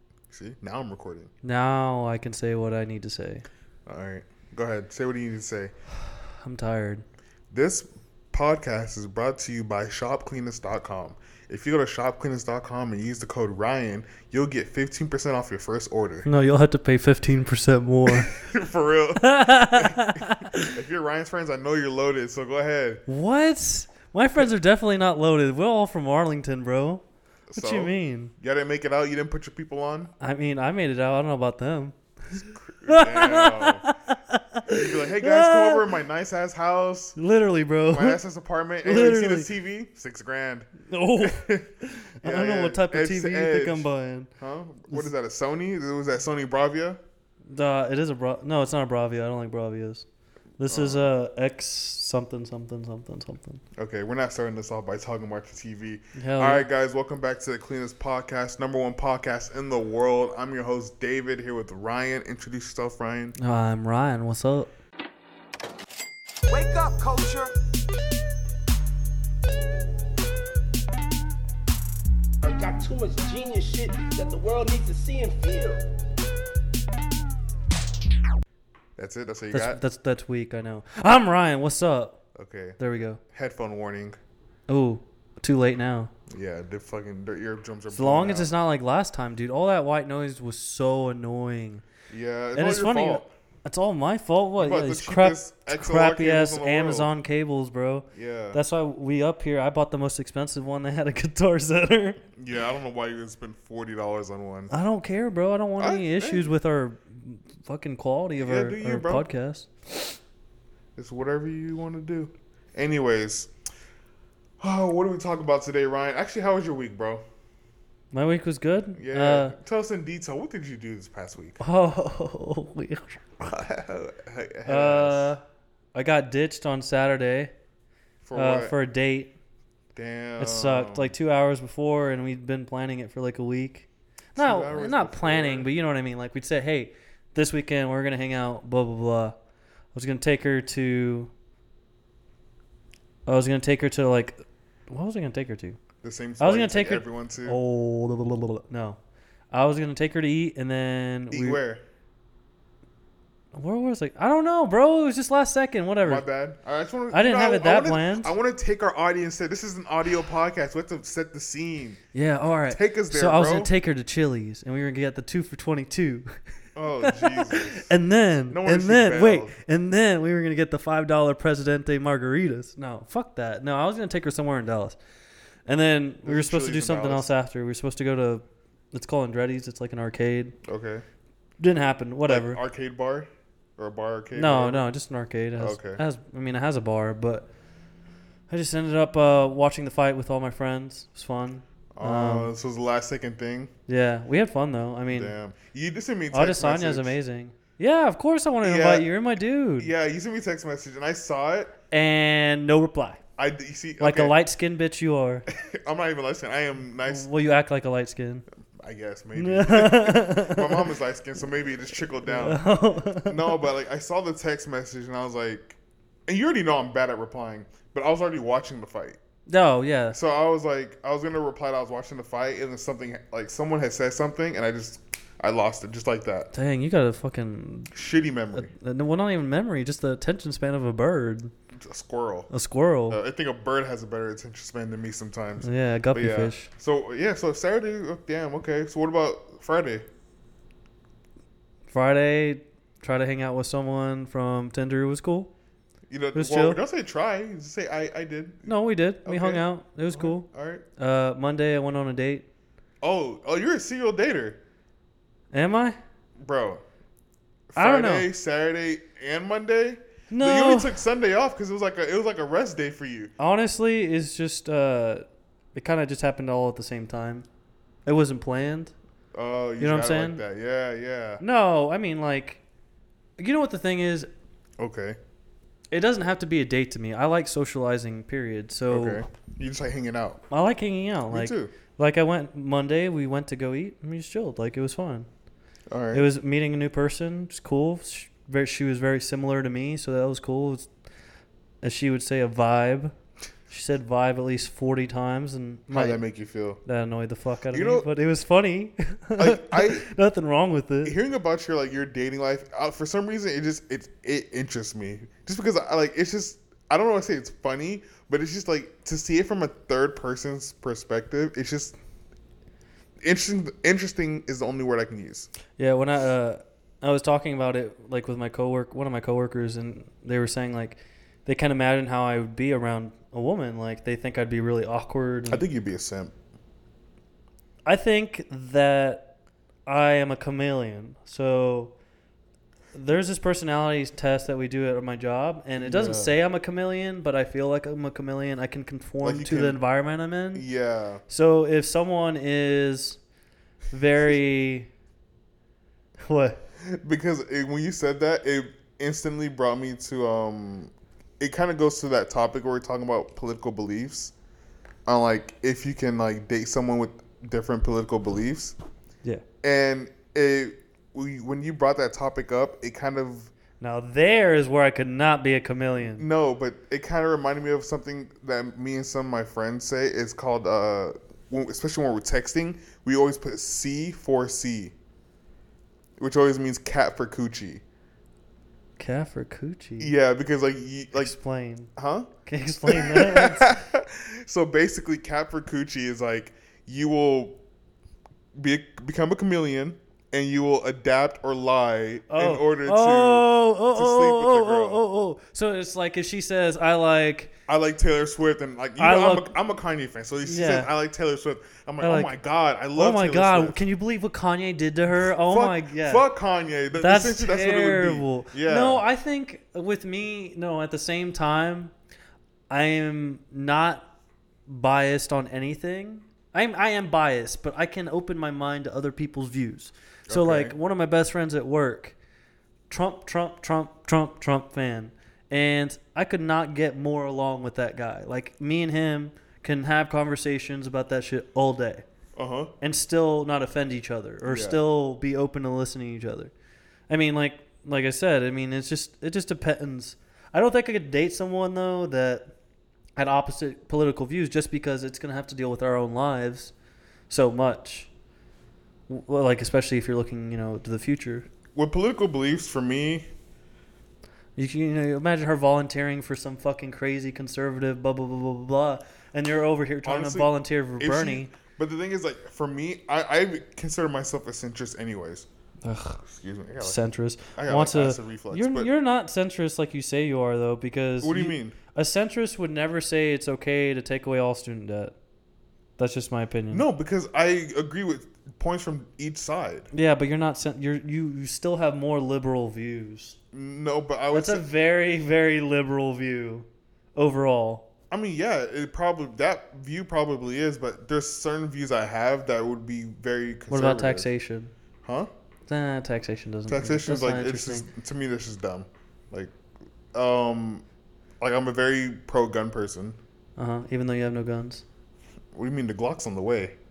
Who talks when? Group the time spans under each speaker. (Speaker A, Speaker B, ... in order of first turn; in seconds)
Speaker A: 0.3-1.3, 3.9-5.7, 7.5-16.3, 18.1-23.0, 27.5-30.1, 32.5-33.9, 34.6-37.2, 37.9-43.9, 44.4-47.0, 50.7-51.1, 53.8-63.3, 79.0-79.8, 82.3-84.2, 86.3-88.5, 92.1-93.3, 94.6-97.1, 98.1-98.6, 102.3-104.7, 105.8-106.5, 108.4-109.2, 111.0-113.5, 114.6-117.2, 118.9-121.6, 123.4-125.3, 128.2-128.7, 129.9-131.1, 134.3-135.7, 146.0-147.6, 151.3-151.8, 156.0-162.0, 162.7-163.7, 166.8-167.9, 168.5-169.6, 176.2-177.3, 180.6-181.0, 182.3-184.8, 185.6-186.0, 191.9-193.7, 195.1-197.2, 198.6-199.1, 199.8-201.7, 203.4-204.4, 205.5-207.3, 208.7-212.6, 213.2-219.2, 220.1-226.5, 227.9-228.7, 231.8-232.5, 233.1-240.1, 246.1-250.8, 253.0-254.6, 256.4-256.8, 257.7-263.3, 269.3-271.4, 274.8-275.2, 278.9-280.4, 281.3-281.7, 285.9-286.3, 295.9-296.8, 297.7-298.1, 299.4-300.1, 301.0-311.9, 313.2-315.5, 325.5-326.3, 335.8-336.4, 339.2-339.8, 340.5-341.2, 346.8-354.3, 355.1-358.7, 359.6-363.5, 366.1-374.9, 376.2-377.8, 380.0-381.3, 381.9-382.3, 382.9-387.6, 388.5-395.0, 397.7-403.8, 405.2-409.0, 420.3-420.7, 432.4-432.7, 434.4-434.8, 451.7-453.3, 460.0-465.5, 466.2-467.0, 467.5-468.9, 471.2-471.7, 476.7-479.9, 483.5-484.7, 488.1-494.3, 495.0-495.3, 496.7-499.5, 500.1-500.8, 501.4-503.2, 505.5-506.8
Speaker B: 1.4-3.4, 6.4-7.0, 16.2-18.3, 19.2-20.8, 23.1-27.0, 27.5-28.3, 30.2-35.9, 37.2-38.2, 38.8-39.5, 40.9-44.3, 47.5-50.0, 50.6-53.6, 56.1-56.6, 63.4-64.7, 79.5-82.2, 82.8-83.2, 84.7-86.1, 87.9-91.8, 92.5-102.2, 104.7-110.2, 118.1-119.5, 121.6-123.2, 124.7-125.4, 125.9-127.5, 128.3-129.3, 130.4-139.3, 139.9-141.3, 143.2-145.8, 146.4-149.0, 149.5-151.6, 153.5-156.2, 157.1-158.3, 162.1-166.3, 167.0-175.0, 175.7-180.6, 181.6-182.6, 184.3-187.5, 188.5-192.5, 193.9-195.3, 196.3-199.9, 201.9-203.2, 204.0-205.5, 207.0-208.4, 209.3-210.9, 212.2-213.5, 219.5-220.2, 226.5-227.9, 228.5-231.5, 232.5-233.2, 235.6-236.7, 241.9-245.5, 246.3-246.8, 248.7-250.4, 251.0-252.4, 255.5-255.9, 257.8-258.3, 260.3-261.0, 263.4-267.4, 268.1-268.9, 269.8-270.4, 271.4-272.6, 273.4-274.3, 275.9-279.2, 280.5-285.3, 286.1-290.9, 291.8-293.1, 293.7-296.2, 296.8-301.1, 315.8-325.6, 327.9-329.3, 329.9-331.9, 332.9-340.6, 341.3-343.2, 343.9-344.9, 346.2-346.6, 363.8-366.2, 379.0-380.1, 381.1-381.9, 382.4-383.8, 392.3-397.5, 399.0-399.5, 400.4-400.9, 402.0-402.3, 402.9-406.2, 406.9-411.9, 412.7-414.1, 414.7-422.1, 422.9-432.0, 432.8-436.5, 437.1-442.5, 443.2-446.7, 447.3-448.1, 449.1-451.5, 454.6-461.5, 465.8-466.2, 466.8-475.1, 476.0-476.8, 479.9-483.4, 484.3-487.9, 493.7-494.7, 495.7-497.9, 503.6-504.8
Speaker C: 66.5-67.5, 72.4-75.8